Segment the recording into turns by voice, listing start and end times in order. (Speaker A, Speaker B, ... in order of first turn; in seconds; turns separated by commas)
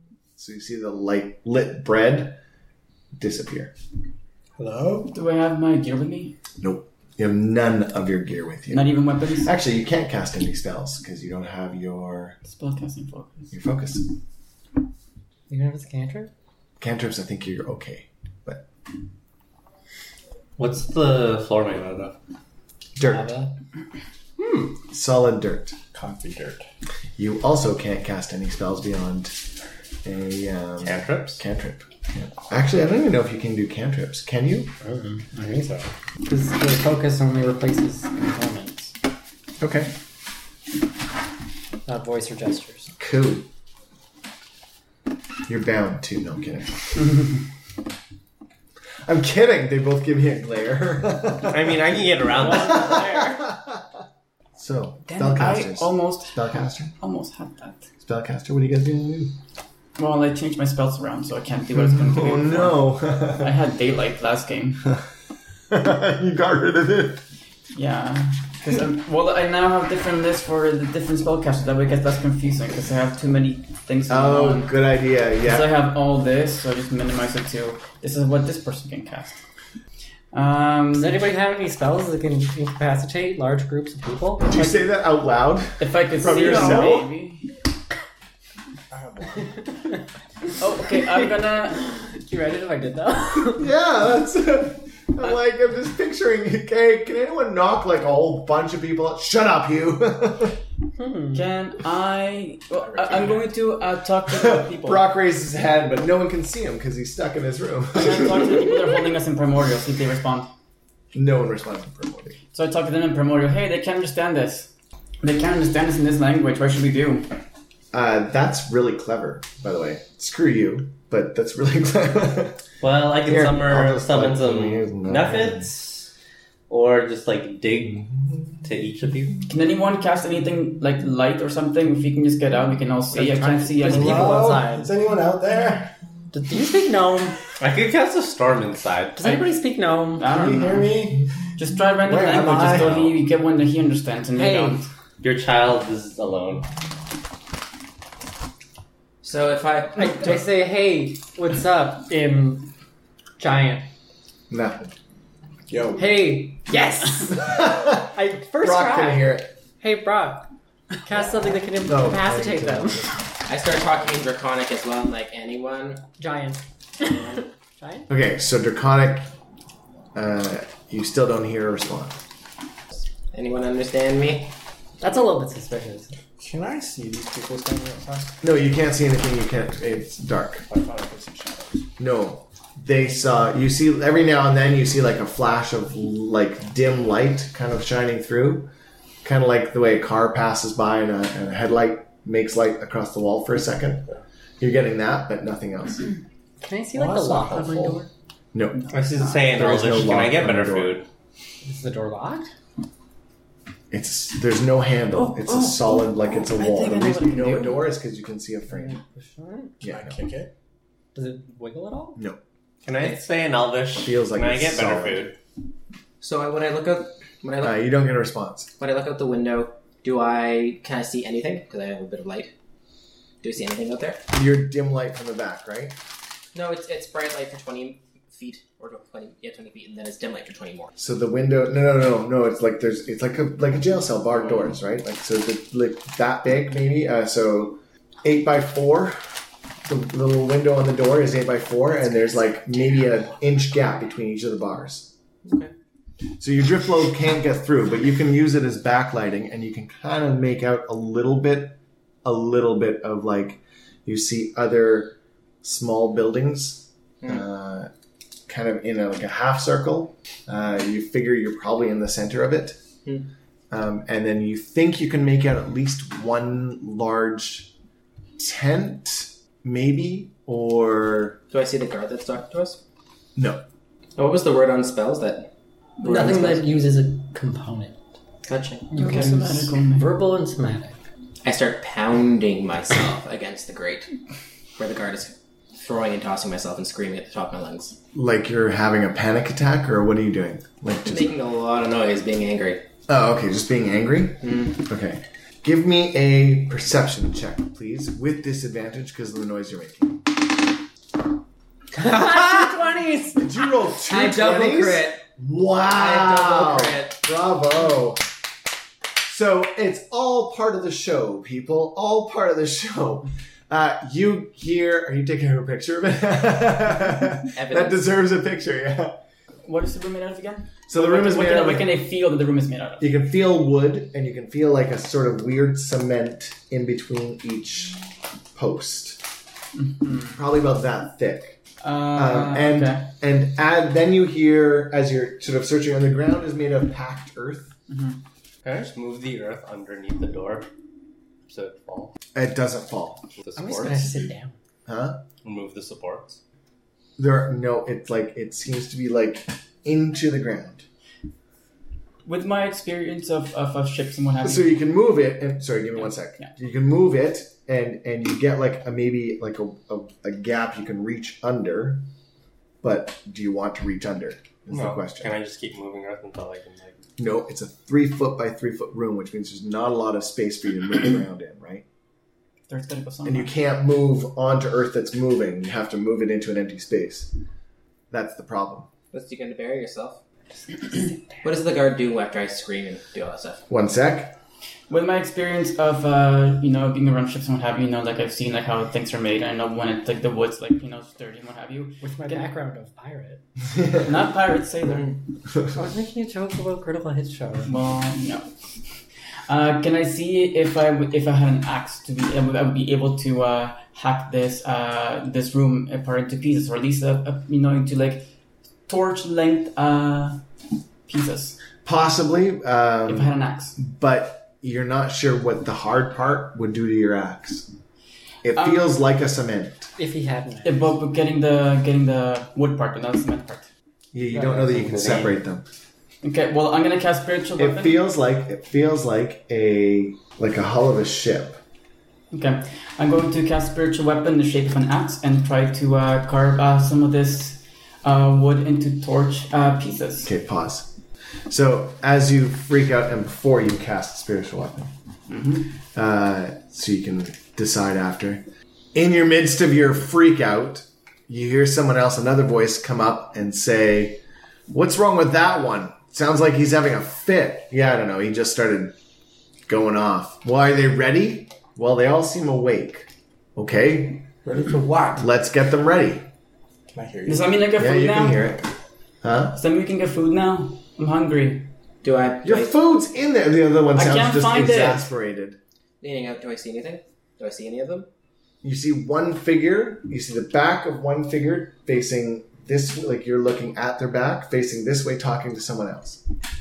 Speaker A: 0.4-2.4, Speaker A: 3.2-3.7, Speaker B: 4.6-5.1, Speaker C: 5.1-6.4, Speaker A: 6.6-12.4, Speaker C: 8.7-9.5, Speaker C: 12.5-13.5, Speaker A: 13.5-14.1, Speaker D: 15.5-16.3, Speaker A: 16.8-18.7, Speaker E: 20.6-22.2, Speaker A: 23.0-23.3, Speaker D: 23.0-23.5, Speaker B: 24.4-24.8, Speaker A: 24.9-25.8, Speaker B: 25.9-26.6, Speaker A: 27.2-29.4, Speaker A: 30.0-34.7, Speaker E: 30.8-31.4, Speaker D: 34.8-39.0, Speaker A: 39.6-39.9, Speaker D: 41.9-42.9, Speaker A: 43.0-43.5, Speaker A: 45.5-47.1, Speaker A: 49.1-53.9, Speaker E: 51.5-53.1, Speaker A: 54.6-56.9, Speaker C: 55.1-56.5, Speaker C: 57.0-57.9, Speaker A: 58.0-59.3, Speaker C: 60.0-65.0, Speaker A: 61.8-63.6, Speaker A: 65.7-67.2, Speaker C: 67.7-74.7, Speaker A: 74.1-75.7, Speaker C: 75.4-79.4, Speaker C: 80.3-81.3, Speaker D: 80.9-84.5, Speaker A: 84.5-87.1, Speaker C: 85.8-87.5, Speaker B: 86.4-86.8, Speaker B: 88.9-89.8, Speaker C: 90.6-91.8, Speaker D: 91.0-93.7, Speaker A: 93.5-100.6, Speaker D: 101.0-101.5, Speaker C: 101.3-105.1, Speaker B: 102.8-103.5, Speaker A: 104.3-108.7, Speaker C: 107.9-110.5, Speaker A: 111.1-112.4, Speaker C: 112.5-114.7, Speaker C: 115.2-117.3, Speaker A: 117.9-122.6, Speaker E: 122.8-126.1, Speaker A: 123.2-125.7, Speaker E: 126.7-129.4, Speaker C: 129.5-134.6, Speaker D: 133.1-134.9, Speaker B: 133.8-135.9, Speaker D: 136.3-137.4, Speaker E: 137.6-139.4, Speaker D: 139.2-140.5, Speaker C: 140.2-144.9, Speaker B: 140.3-141.2, Speaker B: 142.1-143.0, Speaker E: 142.7-143.1, Speaker D: 144.3-144.9, Speaker E: 145.2-146.7, Speaker F: 149.2-150.3, Speaker D: 150.0-152.7, Speaker D: 153.4-153.9, Speaker A: 154.5-154.9, Speaker B: 155.7-156.3, Speaker D: 156.0-160.5, Speaker A: 157.4-159.5, Speaker D: 161.0-163.1, Speaker A: 161.8-163.2, Speaker F: 163.5-166.0, Speaker D: 166.2-168.1, Speaker A: 168.1-169.3, Speaker A: 170.2-172.2, Speaker F: 173.3-174.5, Speaker D: 175.0-176.2, Speaker B: 176.4-178.4, Speaker A: 178.4-180.7, Speaker B: 180.7-181.9, Speaker A: 182.0-188.7, Speaker A: 189.2-194.1, Speaker A: 194.6-196.1, Speaker D: 196.6-198.1, Speaker B: 196.9-198.1, Speaker A: 198.5-201.0, Speaker C: 198.8-199.5, Speaker E: 198.9-201.1, Speaker D: 201.6-202.5, Speaker A: 203.9-209.0, Speaker C: 205.1-207.9, Speaker D: 208.7-209.8, Speaker B: 209.8-210.5, Speaker A: 209.8-210.2, Speaker D: 211.2-212.2, Speaker E: 212.8-215.3, Speaker A: 214.0-215.3, Speaker F: 216.2-217.8, Speaker A: 217.6-218.7, Speaker F: 218.8-222.5, Speaker F: 223.4-224.2, Speaker A: 224.3-225.9, Speaker F: 226.5-230.9, Speaker A: 231.0-239.2, Speaker A: 239.8-245.1, Speaker F: 245.4-245.7, Speaker A: 246.4-257.9, Speaker A: 258.5-262.8, Speaker A: 263.7-267.7, Speaker A: 268.4-271.4, Speaker F: 271.5-272.8, Speaker A: 273.4-273.6, Speaker F: 274.2-275.5, Speaker F: 276.0-276.7, Speaker D: 276.0-278.0, Speaker F: 278.5-279.0, Speaker D: 278.9-281.0, Speaker C: 278.9-280.2, Speaker F: 281.4-284.1, Speaker F: 284.8-288.0, Speaker A: 288.1-291.3, Speaker F: 291.1-292.8, Speaker A: 293.1-300.3, Speaker F: 294.4-294.8, Speaker D: 301.9-303.4, Speaker A: 303.4-308.2, Speaker F: 304.1-305.2, Speaker F: 305.9-307.2, Speaker A: 309.2-319.2, Speaker F: 317.5-318.1, Speaker C: 319.6-323.1, Speaker A: 320.9-321.9, Speaker A: 323.0-329.2, Speaker C: 329.8-330.4, Speaker A: 330.3-331.6, Speaker C: 331.8-333.1, Speaker A: 332.1-337.8, Speaker C: 337.9-338.2, Speaker E: 338.6-340.7, Speaker E: 341.5-342.1, Speaker A: 342.4-343.3, Speaker E: 343.4-344.2, Speaker D: 343.6-344.6, Speaker A: 344.9-345.2, Speaker E: 345.4-346.4, Speaker A: 347.2-350.9, Speaker C: 352.2-354.8, Speaker A: 354.4-362.0, Speaker A: 362.8-365.4, Speaker E: 364.7-367.0, Speaker A: 367.2-371.9, Speaker C: 372.7-373.5, Speaker A: 373.2-377.3, Speaker A: 378.1-378.9, Speaker F: 379.1-380.2, Speaker F: 381.4-383.6, Speaker A: 383.7-384.4, Speaker C: 384.9-392.5, Speaker D: 392.0-393.4, Speaker A: 393.7-394.1, Speaker C: 394.0-395.2, Speaker D: 395.7-397.8, Speaker C: 397.6-398.5, Speaker C: 399.5-408.3, Speaker C: 408.9-410.4, Speaker C: 411.1-411.6, Speaker A: 411.8-417.7, Speaker C: 413.1-413.8, Speaker A: 418.4-419.9, Speaker C: 418.6-418.9, Speaker D: 420.0-420.9, Speaker C: 420.6-423.7, Speaker A: 424.1-425.6, Speaker E: 424.8-425.3, Speaker C: 426.2-428.0, Speaker A: 427.6-431.6, Speaker C: 432.3-440.3, Speaker A: 440.2-440.9, Speaker A: 441.5-444.9, Speaker C: 445.3-445.8, Speaker A: 445.9-459.0, Speaker A: 459.7-464.3, Speaker B: 464.4-465.3, Speaker A: 465.2-466.3, Speaker B: 466.9-467.7, Speaker C: 467.3-468.5, Speaker A: 467.8-468.7, Speaker A: 469.2-469.6, Speaker C: 469.5-471.7, Speaker F: 472.0-472.7, Speaker A: 472.4-475.6, Speaker C: 473.9-475.1, Speaker F: 476.0-478.1, Speaker A: 478.6-486.2